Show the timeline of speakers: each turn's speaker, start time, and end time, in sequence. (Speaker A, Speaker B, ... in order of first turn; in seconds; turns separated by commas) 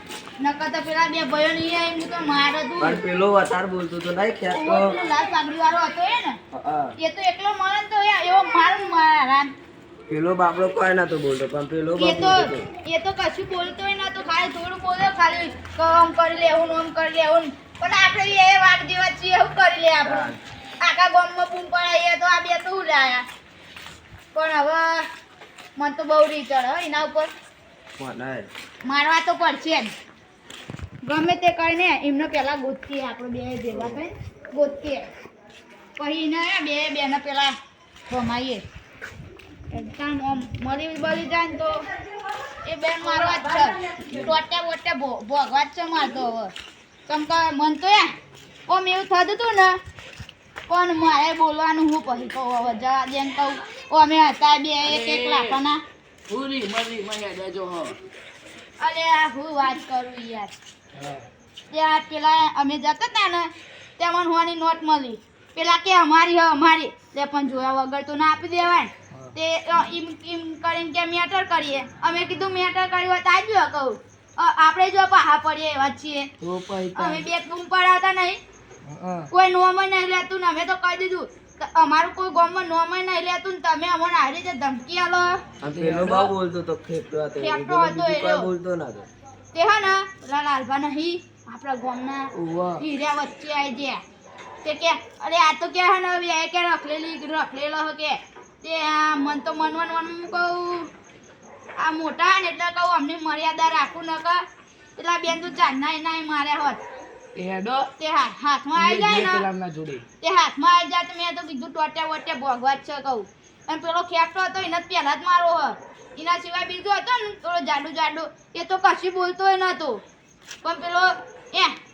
Speaker A: 0.4-3.0, Speaker B: 2.8-5.0, Speaker A: 4.5-6.4, Speaker B: 6.5-6.9, Speaker A: 7.0-9.5, Speaker B: 10.1-12.7, Speaker A: 12.0-23.2, Speaker B: 20.0-20.4, Speaker A: 24.3-25.1, Speaker A: 25.8-27.3, Speaker B: 28.0-28.5, Speaker A: 28.8-29.9, Speaker A: 31.0-35.0, Speaker A: 36.0-37.5, Speaker A: 38.1-38.6, Speaker A: 39.7-41.8, Speaker A: 42.6-46.5, Speaker A: 47.1-48.1, Speaker A: 48.7-49.8, Speaker A: 50.7-55.8, Speaker C: 54.9-55.6, Speaker C: 56.3-58.0, Speaker A: 58.8-60.5, Speaker C: 61.0-61.3, Speaker A: 61.7-76.3, Speaker C: 76.4-77.3, Speaker A: 77.0-78.4, Speaker C: 78.8-79.3, Speaker A: 79.3-85.4, Speaker B: 85.6-89.1, Speaker C: 85.7-86.3, Speaker A: 87.4-88.5, Speaker A: 89.5-94.0, Speaker C: 92.4-92.8, Speaker A: 94.6-100.9, Speaker A: 101.8-104.4, Speaker A: 105.0-106.8, Speaker C: 107.3-107.9, Speaker A: 108.0-109.5, Speaker C: 108.8-110.0, Speaker A: 110.2-120.0, Speaker A: 120.6-121.8